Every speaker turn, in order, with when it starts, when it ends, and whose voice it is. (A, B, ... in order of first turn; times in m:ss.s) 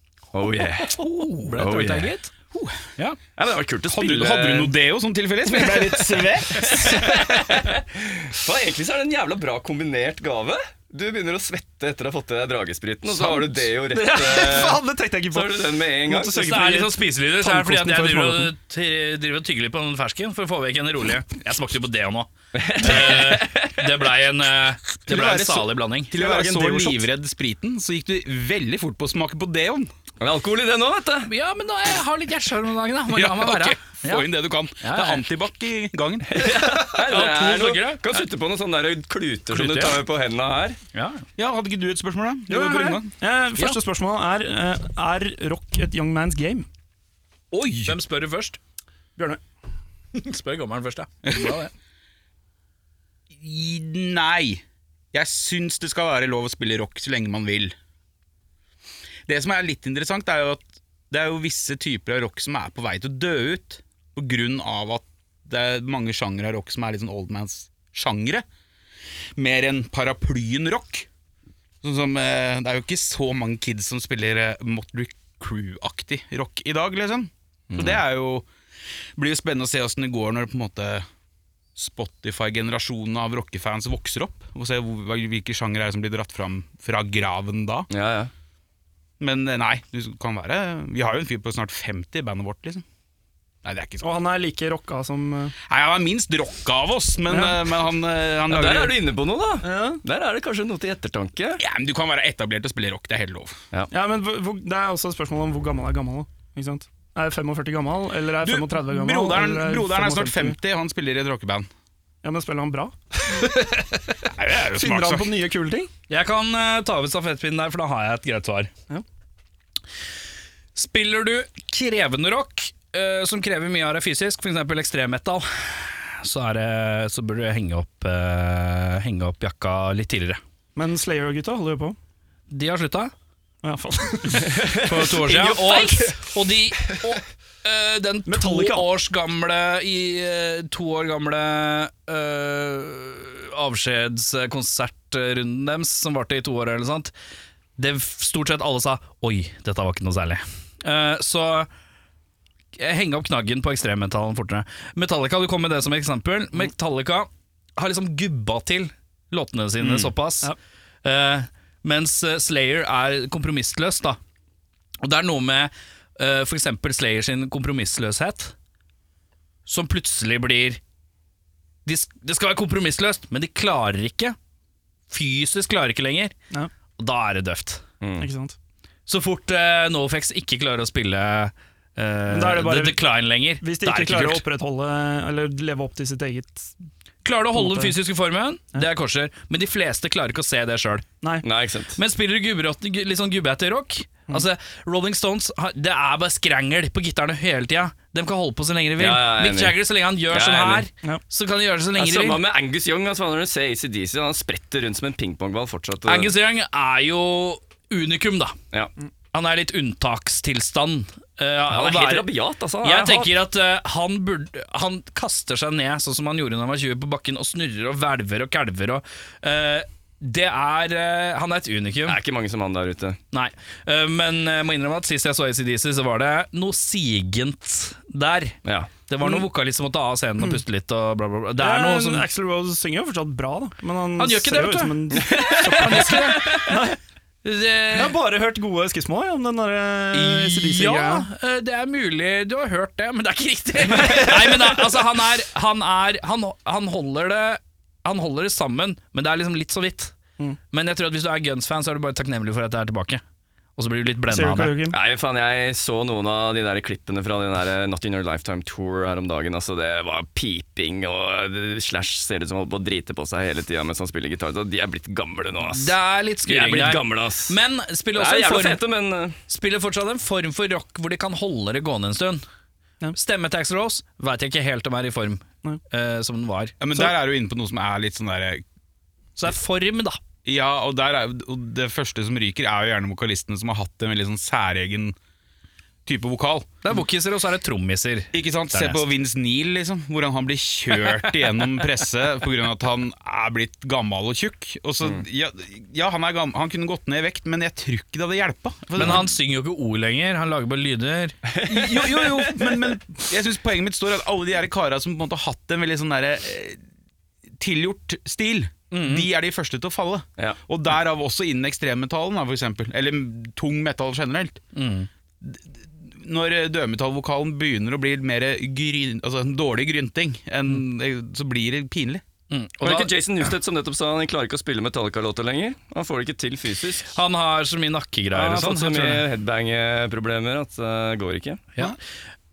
0:00.3-0:01.0 A
0:00.6-0:02.3 B
0:01.5-0:02.1 A
0:02.5-0:02.8 C
0:03.4-0:04.7 A
0:03.9-0:07.5 C
0:05.6-0:16.5 A
0:13.2-0:18.5 D
0:16.4-0:26.1 B
0:22.5-0:23.9 A
0:25.1-0:29.9 C
0:26.1-0:27.0 A
0:30.2-0:31.3 A
0:31.3-0:34.3 B
0:33.1-0:36.4 C
0:34.8-0:35.2 B
0:36.3-0:40.8 A
0:36.4-0:38.2 B
0:39.5-0:40.0 B
0:40.9-0:41.3 B
0:41.4-0:43.1 C
0:42.5-0:46.7 D
0:47.5-0:48.0 C
0:47.8-0:48.6 B
0:50.1-0:51.7 B
0:51.2-0:51.6 C
0:53.3-0:57.8 C
0:59.3-1:08.4 C
1:09.4-1:11.1 C
1:11.8-1:18.5 C
1:17.7-1:18.0 A
1:19.2-1:21.1 C
1:21.8-1:27.9 C
1:27.9-1:28.3 A
1:29.2-1:32.8 C
1:33.6-1:34.1 C
1:34.0-1:35.6 D
1:35.7-1:39.0 C
1:37.3-1:37.6 D
1:38.5-1:41.6 A
1:39.6-1:40.0 D
1:41.6-1:43.6 C
1:43.9-1:50.6 D
1:48.4-1:51.7 C
1:52.2-1:54.2 D
1:54.2-1:55.3 C
1:54.8-1:55.9 D
1:56.1-1:58.7 B
2:00.8-2:10.4 B
2:10.8-2:12.0 D
2:12.5-2:13.1 B
2:13.6-2:15.8 D
2:14.6-2:27.1 B
2:18.3-2:18.9 D
2:27.8-2:31.7 B
2:32.8-2:40.5 B
2:39.8-2:40.1 C
2:41.0-2:44.2 B
2:45.0-2:48.5 B
2:49.7-2:50.8 B
2:51.9-2:54.4 B
2:55.1-2:56.4 B
2:57.0-2:57.8 B
2:58.0-2:58.3 A
2:58.2-2:58.6 D
2:59.1-3:04.4 B
3:02.3-3:03.0 D
3:03.6-3:06.8 D
3:07.2-3:11.1 B
3:07.6-3:08.0 D
3:11.4-3:12.0 A
3:12.0-3:22.4 B
3:19.0-3:19.8 A
3:20.3-3:20.9 A
3:22.0-3:26.3 A
3:26.1-3:28.6 B
3:29.3-3:32.3 B
3:31.7-3:33.3 A
3:32.8-3:42.2 B
3:42.1-3:43.2 A
3:43.3-3:52.3 B
3:48.6-3:48.9 A
3:51.6-3:57.0 D
3:54.2-3:56.6 B
3:55.2-3:56.8 A
3:57.4-3:58.2 B
3:57.9-4:01.3 D
4:00.1-4:10.1 B
4:03.8-4:05.0 D
4:10.7-4:13.2 B
4:13.8-4:14.8 B
4:14.3-4:15.0 D
4:14.9-4:26.0 A
4:25.7-4:28.8 B
4:26.5-4:27.6 A
4:28.1-4:29.4 A
4:29.5-4:32.4 B
4:33.2-4:36.8 B
4:36.8-4:38.6 C
4:39.4-4:40.2 B
4:40.4-4:45.2 C
4:46.1-4:46.8 C
4:46.8-4:49.1 B
4:48.3-4:59.3 C
4:51.2-4:51.9 B
4:59.0-5:01.4 B
5:01.5-5:02.9 A
5:01.6-5:06.8 C
5:07.6-5:14.6 C
5:08.9-5:09.3 B
5:14.8-5:15.1 B
5:15.4-5:22.2 C
5:22.5-5:23.5 B
5:22.8-5:27.2 A
5:27.1-5:29.2 B
5:28.3-5:31.6 A